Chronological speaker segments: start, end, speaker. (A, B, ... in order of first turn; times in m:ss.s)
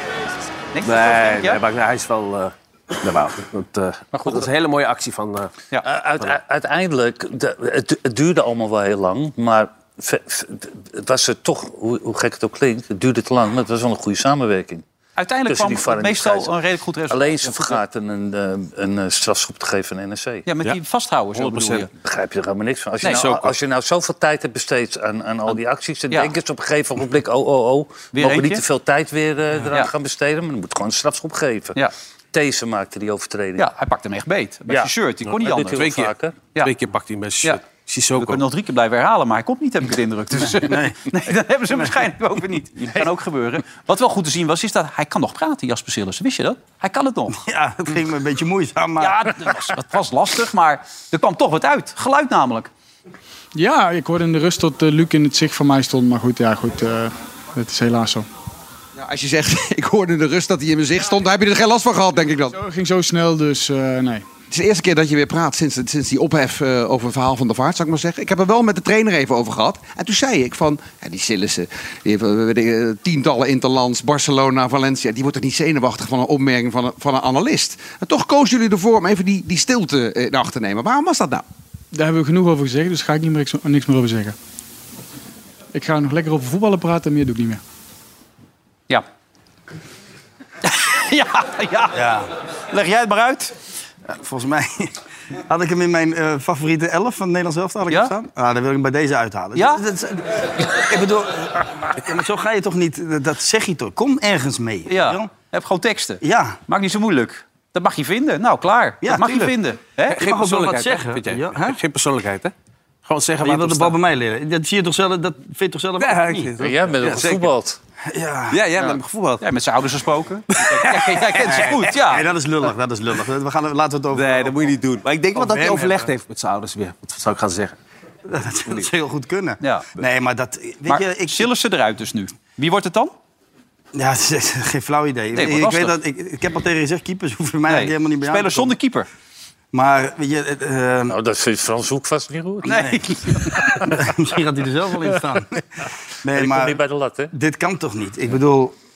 0:00.7-0:01.6 A
0:00.8-0:05.5 B
0:04.2-0:04.5 C
0:05.8-0:14.8 C
0:15.2-0:17.8 A
0:15.5-0:16.5 C
0:17.1-0:20.4 C
0:20.5-0:21.9 A
0:21.4-0:21.9 B
0:22.0-0:31.8 C
0:23.0-0:23.4 A
0:28.1-0:28.6 A
0:32.3-0:33.7 C
0:33.6-0:35.9 A
0:34.7-0:36.4 C
0:35.8-0:38.4 B
0:38.2-0:47.4 A
0:40.6-0:41.1 D
0:47.3-0:49.2 D
0:49.0-0:52.7 A
0:53.6-0:58.3 E
0:59.0-1:02.6 F
1:02.5-1:04.2 E
1:04.5-1:21.4 F
1:21.9-1:24.4 E
1:25.7-1:27.6 E
1:30.6-1:32.0 A
1:32.0-1:32.3 D
1:32.7-1:33.6 A
1:34.1-1:34.9 D
1:35.5-1:45.3 D
1:39.6-1:39.8 A
1:44.9-1:50.2 A
1:46.2-1:46.6 D
1:49.0-1:49.6 D
1:50.2-1:51.8 D
1:50.2-1:52.5 B
1:53.0-1:54.0 B
1:53.4-1:56.5 D
1:56.0-1:57.5 B
1:56.6-1:57.8 C
1:58.1-1:58.6 D
1:58.5-1:59.4 B
1:58.8-2:02.3 A
2:00.6-2:01.7 B
2:01.4-2:04.6 D
2:04.1-2:07.8 B
2:05.4-2:06.1 D
2:08.3-2:11.5 D
2:09.6-2:09.9 A
2:10.9-2:13.1 A
2:14.0-2:18.8 D
2:15.3-2:16.0 A
2:17.7-2:19.1 A
2:19.7-2:21.1 D
2:21.1-2:22.8 C
2:22.6-2:25.6 D
2:23.6-2:24.0 C
2:26.2-2:26.8 D
2:26.3-2:27.3 C
2:27.3-2:28.8 D